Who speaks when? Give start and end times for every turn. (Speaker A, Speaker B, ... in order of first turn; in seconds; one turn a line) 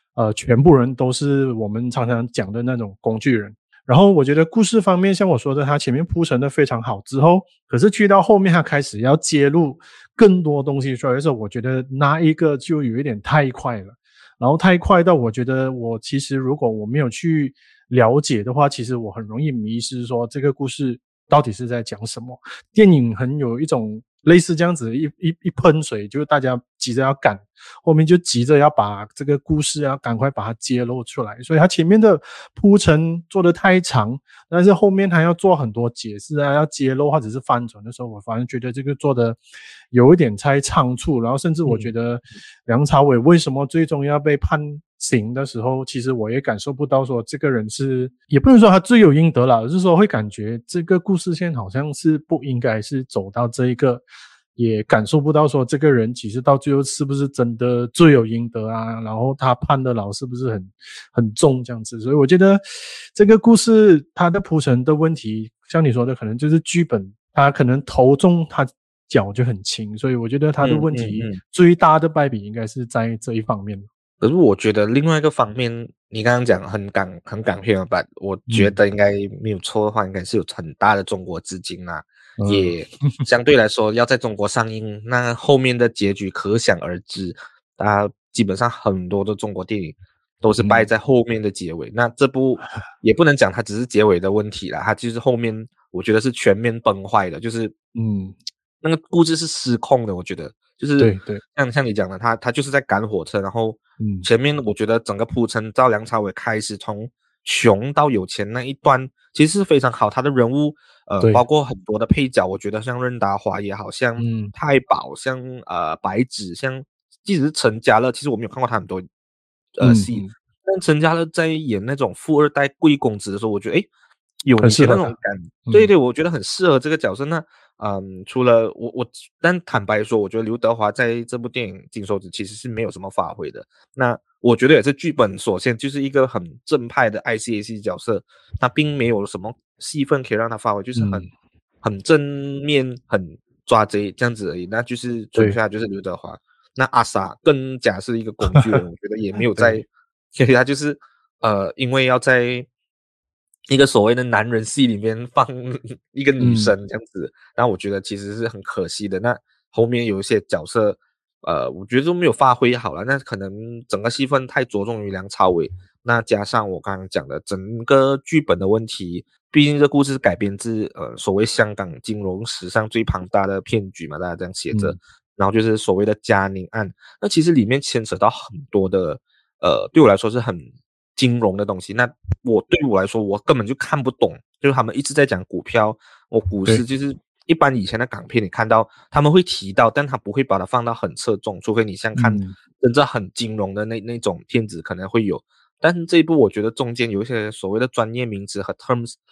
Speaker A: 0.1-39.4
Speaker A: 39.9-54.0
Speaker B: 41.6-41.9
Speaker A: 54.5-62.6
Speaker A: 63.1-73.8
Speaker B: 70.6-71.4
Speaker B: 74.2-97.7
Speaker A: 78.5-78.7
Speaker A: 82.4-83.2
Speaker A: 90.6-90.9
Speaker A: 97.9-98.3
Speaker B: 98.8-119.0
Speaker A: 101.0-101.4
Speaker A: 104.0-104.3
Speaker A: 114.2-114.5
Speaker B: 119.8-123.9
Speaker A: 119.8-120.3
Speaker B: 124.4-141.2
Speaker A: 124.6-125.1
Speaker A: 125.7-125.9
Speaker A: 140.9-141.3
Speaker B: 141.8-152.7
Speaker A: 148.5-148.8
Speaker A: 149.5-149.8
Speaker B: 153.7-199.1
Speaker A: 156.4-156.7
Speaker A: 174.7-175.0
Speaker A: 192.2-192.6